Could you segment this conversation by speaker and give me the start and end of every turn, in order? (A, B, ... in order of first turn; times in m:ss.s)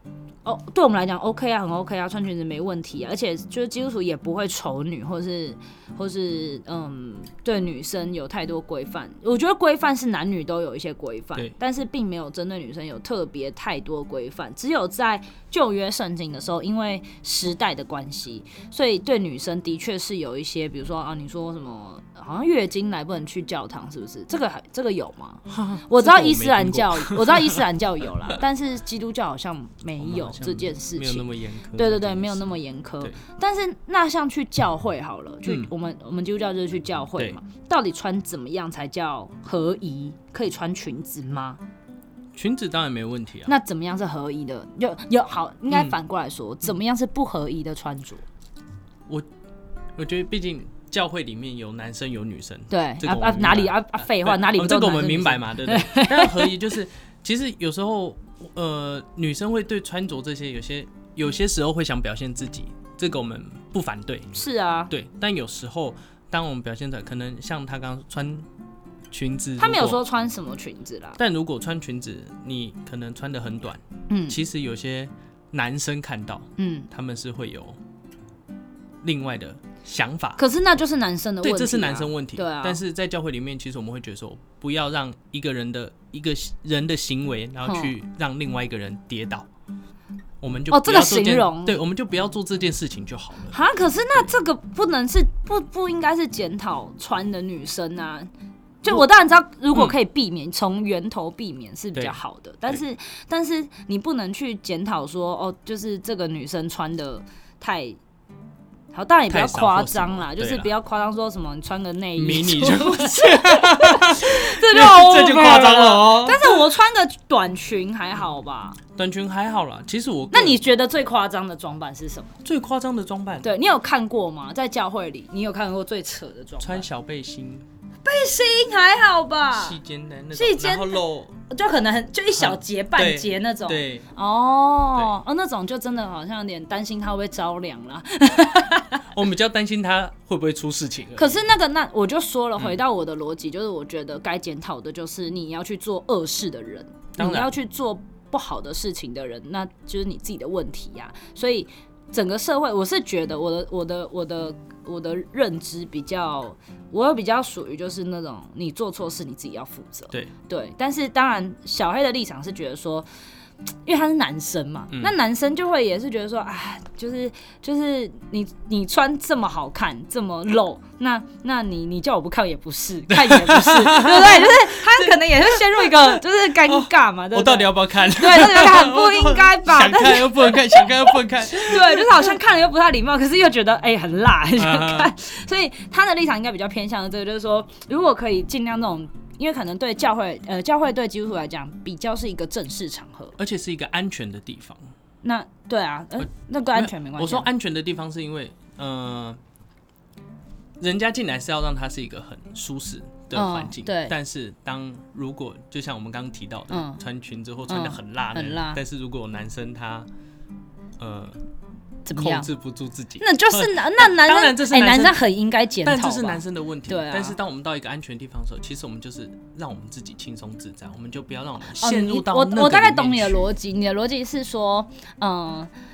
0:00.4-0:41.6 A
0:25.5-0:27.6 B
0:30.0-0:33.2 B
0:35.5-0:35.7 B
0:42.3-0:43.5 B
0:43.5-0:48.2 A
0:50.0-1:04.4 B
0:52.7-0:56.5 A
1:04.4-1:04.9 A
1:04.9-1:08.5 B
1:09.1-1:10.0 B
1:09.6-1:11.2 A
1:11.2-1:17.8 B
1:14.1-1:14.4 A
1:16.6-1:16.9 A
1:19.0-1:20.4 B
1:20.4-1:22.8 A
1:21.4-1:29.5 B
1:27.6-1:27.9 A
1:30.4-1:33.6 B
1:30.7-1:31.8 A
1:33.5-1:38.3 A
1:38.8-1:48.0 A
1:48.9-1:58.8 A
1:49.3-1:50.7 B
1:52.2-1:56.6 B
1:59.0-2:00.6 B
2:00.3-2:02.3 A
2:02.4-2:03.5 B
2:03.4-2:06.9 A
2:06.6-2:07.7 B
2:08.0-2:09.8 A
2:09.5-2:11.4 B
2:10.3-2:19.1 A
2:12.4-2:14.1 B
2:19.1-2:21.4 B
2:21.2-2:43.1 A
2:27.2-2:27.5 B
2:43.9-3:13.4 A
2:53.1-3:02.4 B
3:04.6-3:05.1 B
3:13.4-3:14.9 B
3:15.2-3:17.5 A
3:16.2-3:19.4 B
3:20.8-3:30.1 B
3:23.3-3:24.2 A
3:26.7-3:27.0 A
3:27.7-3:28.8 A
3:31.0-3:31.4 B
3:32.0-3:32.5 A
3:32.1-3:35.2 B
3:33.2-3:37.4 A
3:35.8-3:43.5 B
3:41.8-3:45.7 A